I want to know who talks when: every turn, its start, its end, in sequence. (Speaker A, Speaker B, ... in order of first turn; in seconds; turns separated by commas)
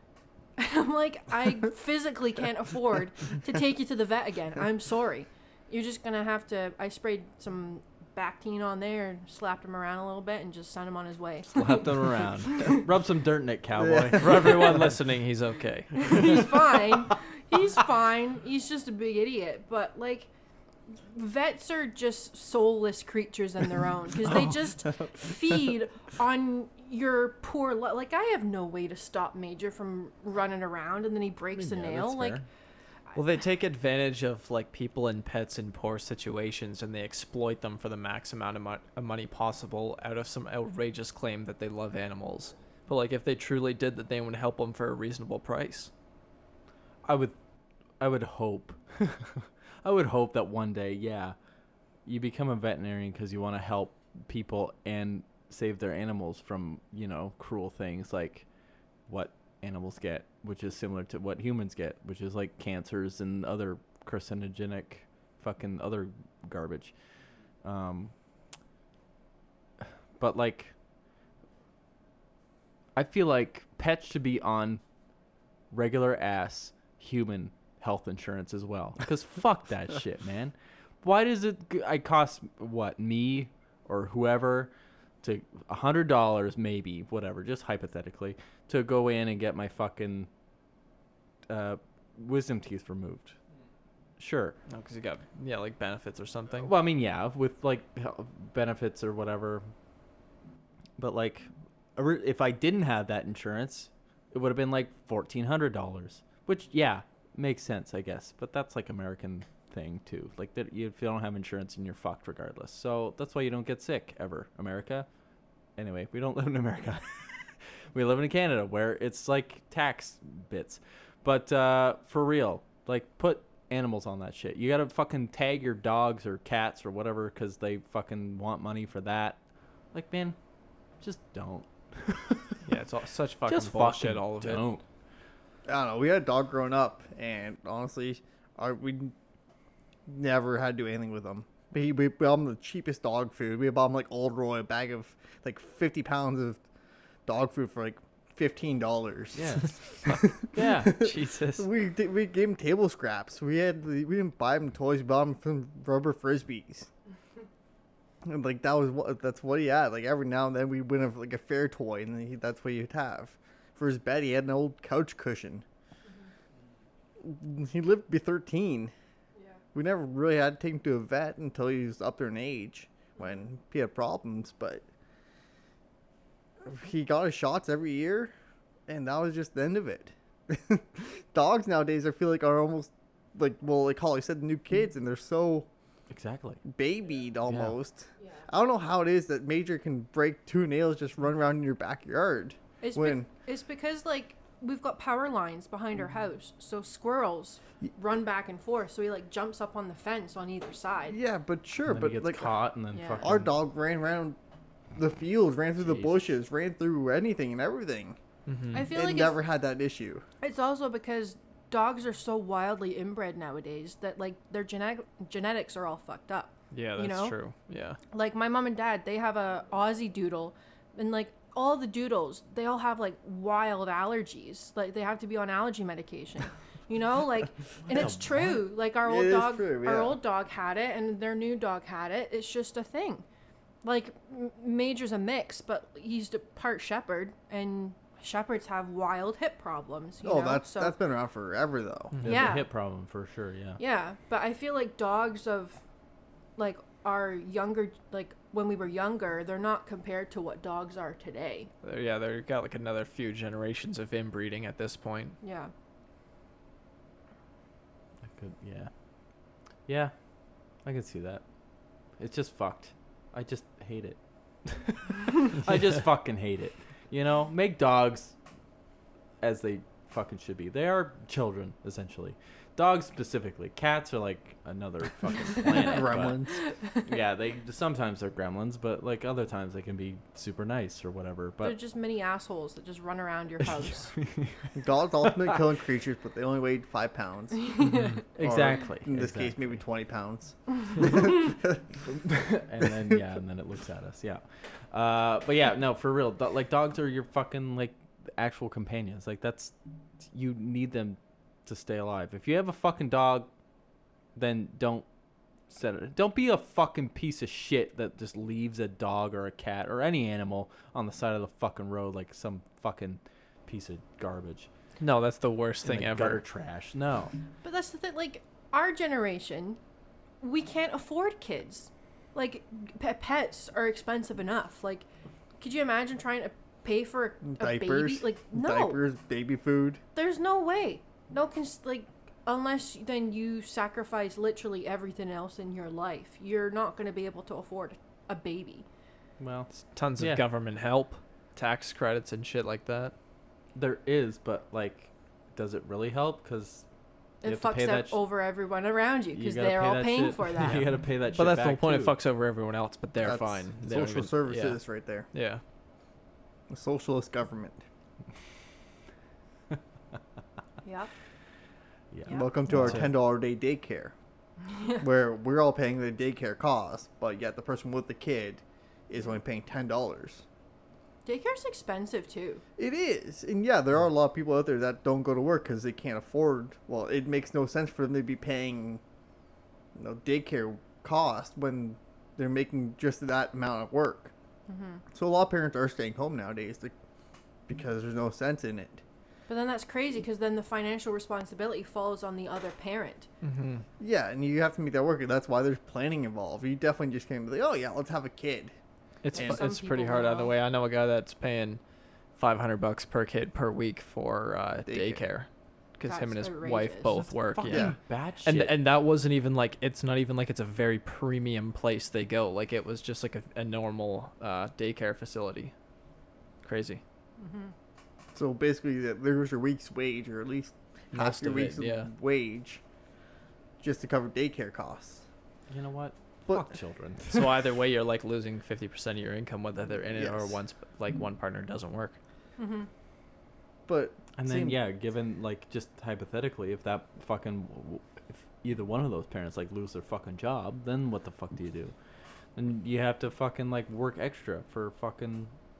Speaker A: 0.6-12.9, Speaker B: 11.5-14.9, Speaker C: 13.9-14.2, Speaker D: 14.2-16.3, Speaker A: 16.0-20.3, Speaker B: 16.0-17.1, Speaker A: 20.9-32.4, Speaker B: 24.3-24.6, Speaker B: 31.6-32.4, Speaker D: 33.1-45.9, Speaker B: 47.0-47.3, Speaker B: 48.0-51.3, Speaker B: 52.0-58.5, Speaker B: 59.1-66.9, Speaker B: 67.6-68.1, Speaker B: 70.2-70.7, Speaker B: 73.0-74.8, Speaker B: 75.7-84.7, Speaker B: 85.2-90.3, Speaker B: 91.5-93.3, Speaker B: 94.2-94.6, Speaker D: 94.7-96.7, Speaker B: 96.6-99.7, Speaker B: 101.0-115.1, Speaker B: 115.8-129.4, Speaker B: 129.9-130.3, Speaker B: 131.0-132.6, Speaker D: 132.6-134.7, Speaker B: 133.4-134.8, Speaker C: 135.7-139.1, Speaker C: 140.1-146.6, Speaker C: 147.2-156.9, Speaker B: 149.3-149.8, Speaker D: 150.0-151.7, Speaker B: 150.5-151.1, Speaker C: 158.2-165.6, Speaker C: 167.2-168.9, Speaker C: 169.7-174.8, Speaker C: 176.6-178.3, Speaker C: 178.9-185.7, Speaker B: 186.1-186.6, Speaker C: 186.6-193.3, Speaker B: 187.4-187.7, Speaker A: 192.8-201.2, Speaker C: 201.1-202.5, Speaker B: 201.9-203.5, Speaker A: 202.9-203.3, Speaker C: 203.2-204.3, Speaker C: 204.9-208.2, Speaker B: 205.8-206.2, Speaker D: 208.5-208.9, Speaker A: 208.7-209.4, Speaker C: 208.9-210.2, Speaker A: 210.4-217.3, Speaker D: 216.7-218.0, Speaker A: 218.1-233.2, Speaker B: 227.9-228.6, Speaker C: 229.0-230.2, Speaker A: 233.8-240.9, Speaker C: 240.2-242.1, Speaker D: 242.1-242.5, Speaker B: 242.2-243.8, Speaker A: 242.2-242.7, Speaker A: 243.8-245.8, Speaker A: 246.6-251.7, Speaker D: 251.8-255.4, Speaker A: 255.4-255.7, Speaker B: 258.3-258.9, Speaker B: 259.9-260.1, Speaker B: 260.8-261.4, Speaker B: 262.1-268.4, Speaker B: 269.4-276.4, Speaker A: 275.8-276.1, Speaker C: 275.8-276.6, Speaker B: 277.0-281.8, Speaker A: 281.6-284.1, Speaker B: 283.6-285.6, Speaker C: 284.7-287.8, Speaker A: 287.6-288.2, Speaker D: 287.8-288.2, Speaker B: 288.3-289.8, Speaker C: 288.4-291.8, Speaker B: 292.0-303.5, Speaker B: 304.3-305.1, Speaker B: 305.7-314.7, Speaker D: 315.0-316.4, Speaker B: 315.8-317.3, Speaker A: 317.6-319.8, Speaker A: 320.4-325.1, Speaker A: 325.6-329.0, Speaker C: 327.4-330.0, Speaker A: 330.1-338.8, Speaker B: 339.4-340.4, Speaker D: 339.7-343.1, Speaker B: 343.7-346.8, Speaker B: 347.4-348.2, Speaker A: 347.4-350.9, Speaker B: 349.3-352.1, Speaker D: 351.4-354.8, Speaker C: 353.2-355.3, Speaker D: 355.3-355.6, Speaker C: 356.7-357.8, Speaker A: 360.8-361.1, Speaker B: 362.1-363.1, Speaker A: 362.2-362.5, Speaker C: 362.3-364.1, Speaker D: 362.7-363.0, Speaker A: 364.7-365.0, Speaker C: 365.0-370.4, Speaker A: 371.2-372.6, Speaker C: 372.8-379.0, Speaker C: 379.9-384.3, Speaker A: 384.7-385.0, Speaker C: 385.1-386.9, Speaker C: 387.7-389.0, Speaker A: 389.5-393.3, Speaker D: 393.4-393.8, Speaker C: 394.0-398.7, Speaker D: 399.2-401.8, Speaker A: 399.3-400.5, Speaker C: 399.3-399.6, Speaker D: 402.4-415.7, Speaker C: 404.9-405.2, Speaker A: 406.0-407.3, Speaker B: 407.5-408.7, Speaker C: 407.7-407.9, Speaker D: 416.6-417.0, Speaker A: 417.4-417.7, Speaker C: 418.3-422.8, Speaker D: 421.1-422.1, Speaker C: 423.8-425.2, Speaker B: 425.7-427.5, Speaker D: 427.3-432.1, Speaker C: 429.9-430.6, Speaker A: 432.6-432.9, Speaker C: 433.9-434.8, Speaker B: 434.4-441.9, Speaker B: 442.6-445.5